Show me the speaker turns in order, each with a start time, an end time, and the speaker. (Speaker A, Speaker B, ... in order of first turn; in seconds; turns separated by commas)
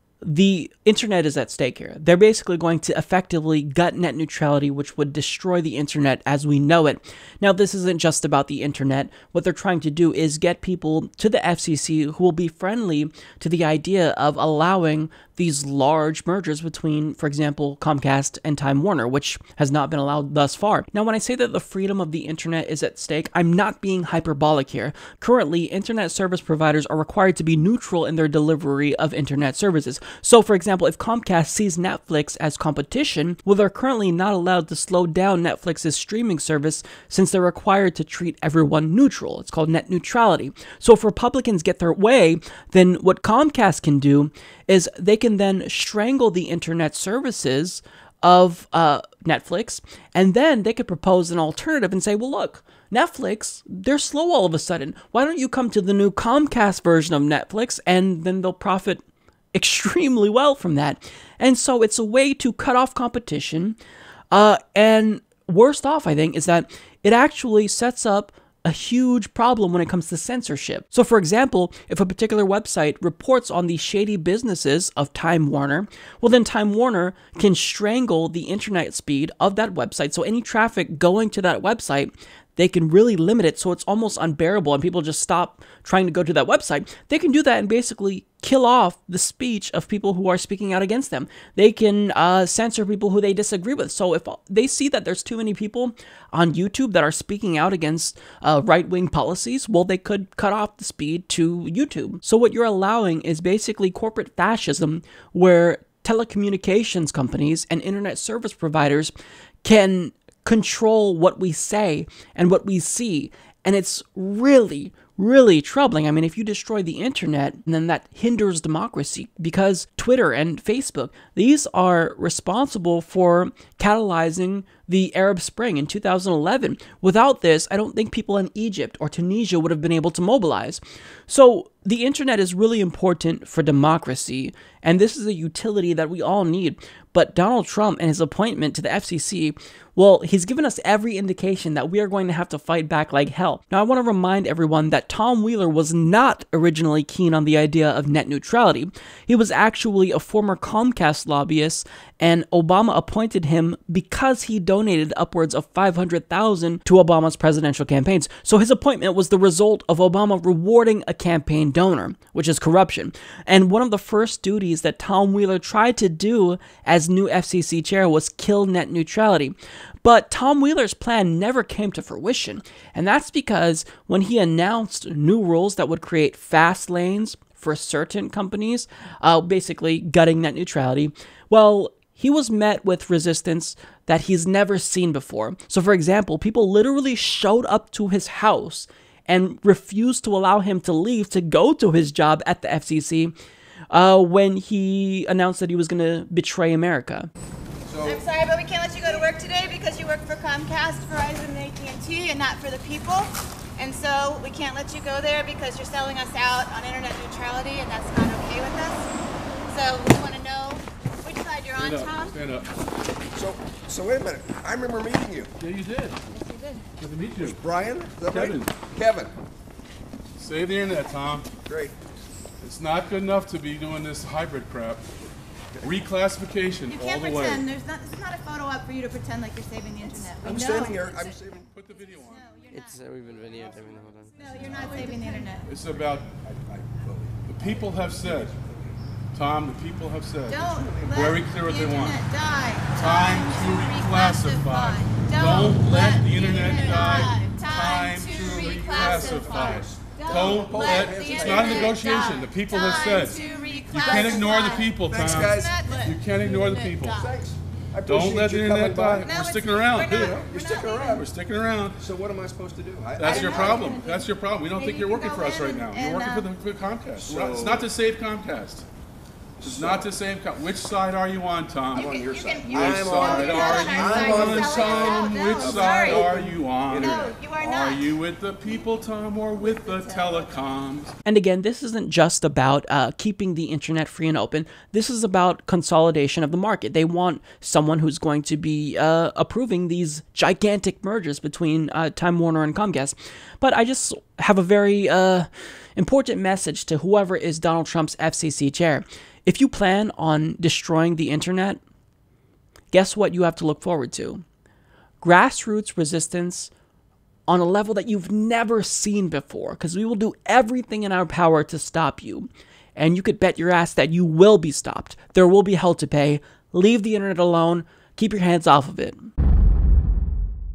Speaker A: 0.2-59.0, Speaker A: 59.5-63.8, Speaker A: 64.3-193.3, Speaker A: 193.9-197.3, Speaker B: 197.8-198.2, Speaker C: 198.0-209.1, Speaker C: 209.7-212.3, Speaker D: 211.8-212.7, Speaker B: 213.3-215.5, Speaker D: 215.6-216.2, Speaker C: 216.3-216.8, Speaker D: 217.0-217.6, Speaker B: 217.4-219.3, Speaker D: 218.2-218.8, Speaker D: 220.4-221.5, Speaker B: 221.6-222.0, Speaker D: 222.6-225.1, Speaker B: 225.7-226.0, Speaker D: 225.8-227.7, Speaker C: 226.9-233.1, Speaker B: 230.4-231.7, Speaker D: 231.7-232.6, Speaker E: 232.6-235.2, Speaker C: 234.3-235.7, Speaker B: 234.7-235.0, Speaker D: 235.6-236.4, Speaker B: 235.7-239.0, Speaker D: 237.5-238.5, Speaker D: 239.3-242.2, Speaker C: 240.5-257.3, Speaker B: 240.5-241.5, Speaker D: 242.9-257.2, Speaker B: 248.3-252.0, Speaker B: 253.9-259.3, Speaker D: 258.1-260.4, Speaker C: 259.2-261.2, Speaker B: 260.1-261.3, Speaker D: 261.1-262.0, Speaker B: 262.0-264.0, Speaker D: 263.2-268.9, Speaker C: 263.2-266.5, Speaker B: 267.2-267.9, Speaker B: 269.6-270.1, Speaker D: 269.6-281.1, Speaker B: 271.9-277.4, Speaker C: 271.9-276.3, Speaker C: 277.0-278.1, Speaker C: 279.6-280.6, Speaker A: 281.2-301.8, Speaker A: 302.9-304.4, Speaker A: 305.2-306.7, Speaker A: 307.5-319.3